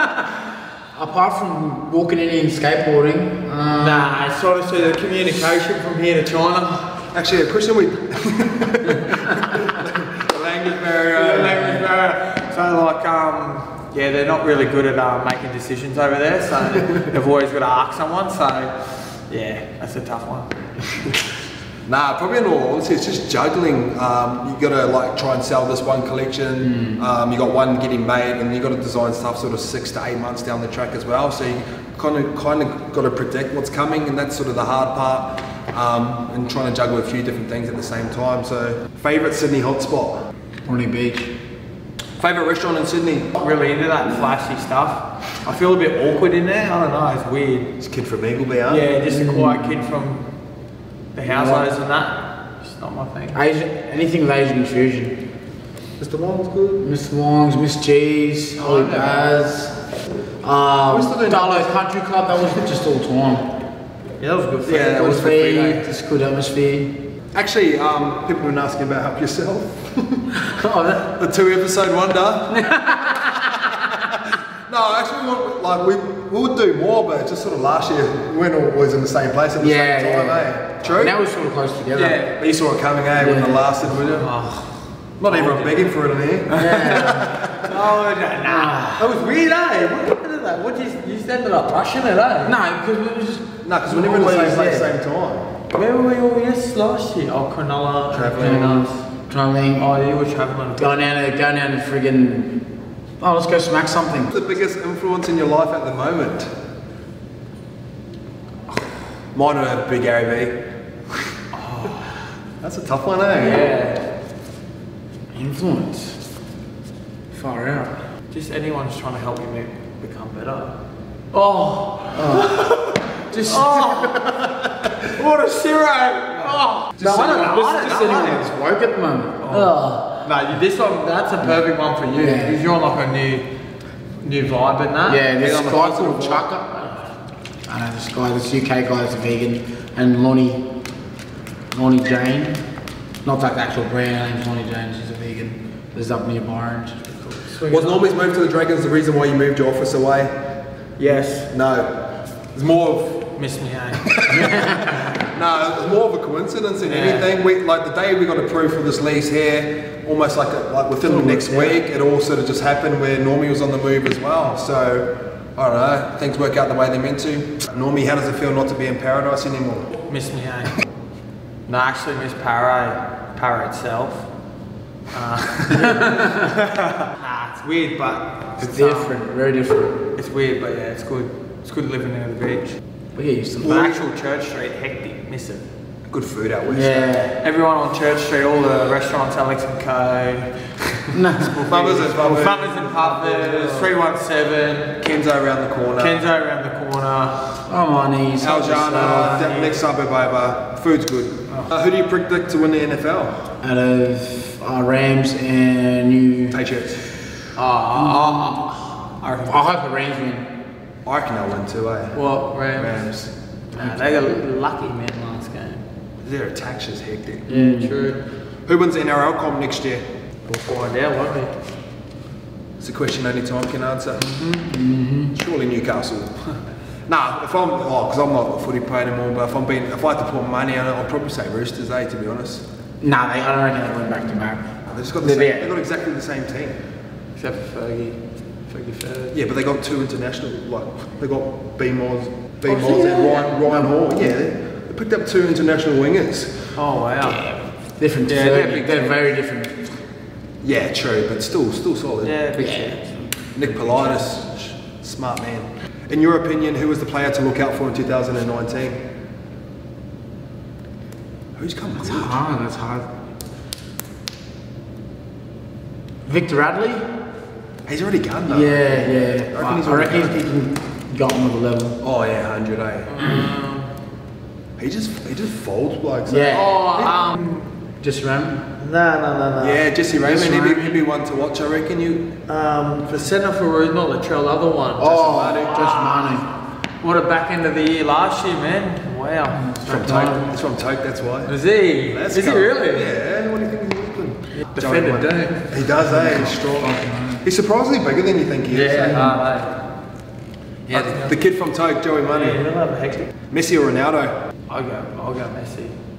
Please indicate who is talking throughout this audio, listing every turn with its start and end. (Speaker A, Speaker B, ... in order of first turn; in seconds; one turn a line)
Speaker A: 0.9-4.2
Speaker B: 3.7-7.0
Speaker C: 7.1-11.8
Speaker B: 11.1-20.5
Speaker C: 21.9-40.2
Speaker A: 26.6-27.1
Speaker A: 40.7-41.3
Speaker C: 42.2-43.4
Speaker B: 43.4-47.7
Speaker C: 47.8-48.9
Speaker B: 48.7-50.2
Speaker A: 49.0-49.8
Speaker B: 51.1-53.4
Speaker A: 51.2-51.7
Speaker A: 53.3-55.2
Speaker C: 56.0-56.8
Speaker A: 56.8-59.8
Speaker B: 58.6-59.3
Speaker A: 60.4-63.5
Speaker C: 60.9-61.7
Speaker B: 64.2-65.8
Speaker C: 64.7-65.8
Speaker A: 64.9-67.0
Speaker C: 67.3-70.2
Speaker A: 70.4-71.1
Speaker C: 71.2-72.9
Speaker A: 72.5-73.3
Speaker C: 74.7-81.2
Speaker A: 79.6-82.3
Speaker B: 81.9-82.3
Speaker C: 82.3-84.3
Speaker A: 83.2-83.7
Speaker B: 84.1-85.9
Speaker C: 85.2-87.7
Speaker B: 86.5-87.1
Speaker A: 86.6-87.3
Speaker B: 87.6-92.6
Speaker A: 88.4-89.1
Speaker A: 92.4-94.9
Speaker C: 93.6-95.5
Speaker B: 95.7-99.0
Speaker C: 98.1-98.8
Speaker A: 98.4-99.9
Speaker B: 99.7-101.0
Speaker A: 100.8-102.7
Speaker A: 103.2-104.3
Speaker C: 104.3-106.5
Speaker C: 109.3-110.6
Speaker B: 111.5-112.1
Speaker C: 112.6-113.6
Speaker B: 113.4-114.0
Speaker A: 113.5-113.8
Speaker A: 115.3-116.2
Speaker A: 117.3-118.0
Speaker B: 118.3-120.8
Speaker B: 121.3-124.2
Speaker A: 122.1-122.6
Speaker A: 123.3-123.9
Speaker C: 124.0-124.9
Speaker B: 125.1-128.5
Speaker A: 127.0-130.2
Speaker C: 127.0-127.3
Speaker B: 129.4-133.5
Speaker A: 132.1-132.6
Speaker B: 134.2-135.2
Speaker A: 135.1-137.1
Speaker C: 135.4-136.4
Speaker A: 137.7-140.7
Speaker A: 141.7-142.6
Speaker A: 143.2-147.0
Speaker B: 147.2-148.1
Speaker C: 147.7-150.4
Speaker B: 151.0-151.5
Speaker C: 151.2-151.9
Speaker C: 152.5-153.3
Speaker B: 153.4-154.9
Speaker C: 154.1-154.6
Speaker C: 155.2-169.9
Speaker B: 156.8-157.3
Speaker A: 161.0-161.8
Speaker B: 170.1-170.8
Speaker B: 171.7-174.3
Speaker B: 175.1-179.2
Speaker A: 175.7-176.5
Speaker A: 178.6-180.0
Speaker B: 180.2-182.8
Speaker A: 183.2-183.9
Speaker B: 183.6-185.7
Speaker C: 183.6-183.9
Speaker C: 186.1-187.3
Speaker A: 186.7-187.4
Speaker B: 187.4-190.8
Speaker A: 191.1-191.6
Speaker B: 191.6-195.0
Speaker C: 191.7-192.7
Speaker A: 192.2-193.9
Speaker C: 195.0-196.2
Speaker B: 196.0-197.6
Speaker A: 197.7-199.4
Speaker C: 198.4-203.3
Speaker B: 199.2-199.8
Speaker A: 203.6-206.6
Speaker C: 206.5-207.0
Speaker B: 207.6-209.7
Speaker A: 207.9-208.6
Speaker A: 209.4-210.5
Speaker C: 211.1-212.2
Speaker B: 212.1-213.0
Speaker C: 212.7-213.3
Speaker B: 213.7-215.8
Speaker C: 216.2-217.5
Speaker A: 217.5-218.0
Speaker B: 217.5-218.2
Speaker C: 218.7-220.0
Speaker B: 220.5-221.5
Speaker C: 222.8-224.2
Speaker A: 224.4-225.3
Speaker C: 225.3-226.4
Speaker C: 227.1-232.6
Speaker A: 233.0-234.7
Speaker C: 234.9-236.8
Speaker A: 235.2-235.7
Speaker B: 237.3-239.3
Speaker C: 239.3-246.7
Speaker A: 242.7-243.8
Speaker B: 246.8-247.4
Speaker A: 247.2-249.9
Speaker B: 248.3-249.2
Speaker C: 250.6-252.3
Speaker B: 252.2-253.2
Speaker A: 252.6-253.3
Speaker C: 253.6-259.0
Speaker C: 261.6-262.4
Speaker A: 262.0-263.1
Speaker A: 266.3-267.1
Speaker C: 267.9-270.4
Speaker A: 268.5-272.0
Speaker C: 272.0-273.1
Speaker B: 273.1-273.9
Speaker C: 274.8-277.2
Speaker A: 276.3-276.7
Speaker B: 276.5-277.7
Speaker A: 278.0-278.6
Speaker B: 278.8-279.9
Speaker C: 279.6-282.3
Speaker A: 280.2-281.0
Speaker B: 282.5-285.2
Speaker A: 285.0-286.4
Speaker C: 285.0-285.9
Speaker B: 285.7-286.4
Speaker B: 287.0-290.1
Speaker A: 289.6-290.5
Speaker C: 289.8-291.5
Speaker B: 291.4-293.1
Speaker C: 292.1-299.3
Speaker B: 294.7-295.6
Speaker A: 296.0-297.4
Speaker B: 298.7-299.8
Speaker B: 300.9-301.3
Speaker C: 300.9-302.6
Speaker B: 302.3-303.3
Speaker C: 303.5-304.4
Speaker B: 304.7-305.9